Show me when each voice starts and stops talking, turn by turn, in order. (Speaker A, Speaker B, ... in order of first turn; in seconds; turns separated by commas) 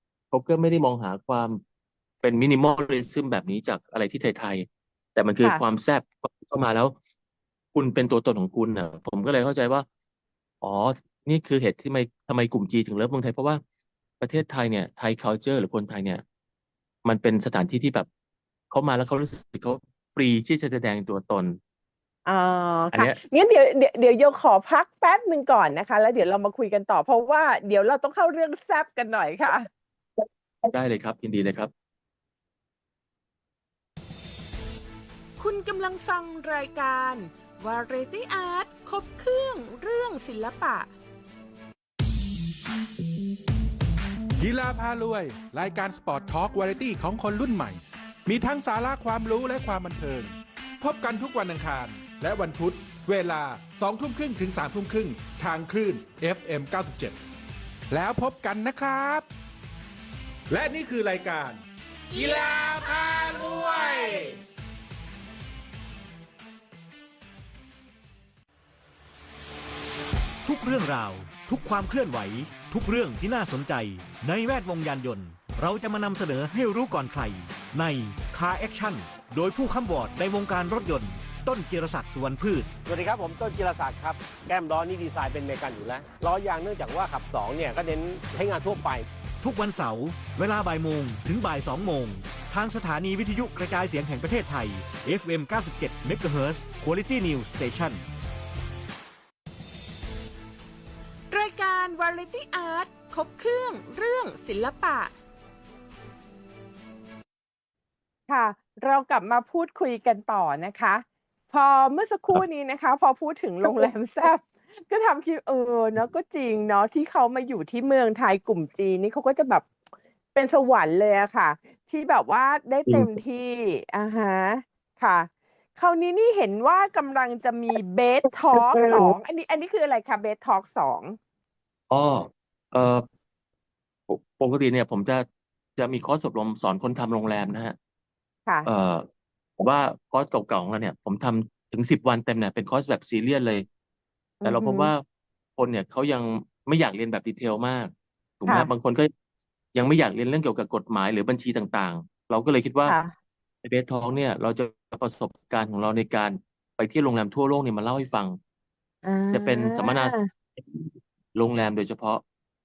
Speaker A: 0.3-1.6, Speaker A: 2.2-7.0, Speaker A: 7.8-9.8, Speaker A: 10.6-13.6, Speaker A: 14.2-16.2, Speaker A: 17.0-18.1, Speaker A: 18.7-21.6, Speaker B: 22.3-29.7, Speaker A: 30.6-31.7, Speaker B: 35.4-40.9, Speaker C: 44.4-57.2, Speaker C: 57.9-59.3, Speaker C: 60.5-64.4, Speaker D: 70.5-82.7, Speaker E: 82.9-89.1, Speaker D: 89.4-98.0, Speaker B: 101.3-105.1, Speaker B: 108.3-119.7, Speaker B: 120.3-131.2, Speaker A: 128.7-129.1, Speaker A: 131.9-133.1, Speaker A: 134.1-135.3, Speaker A: 135.8-137.8, Speaker A: 138.7-139.1, Speaker A: 139.6-143.7, Speaker B: 144.4-144.9, Speaker A: 144.4-145.0, Speaker A: 145.6-149.1, Speaker A: 149.7-153.0, Speaker B: 152.8-153.1, Speaker A: 153.6-158.4, Speaker B: 159.0-160.3, Speaker A: 159.3-162.2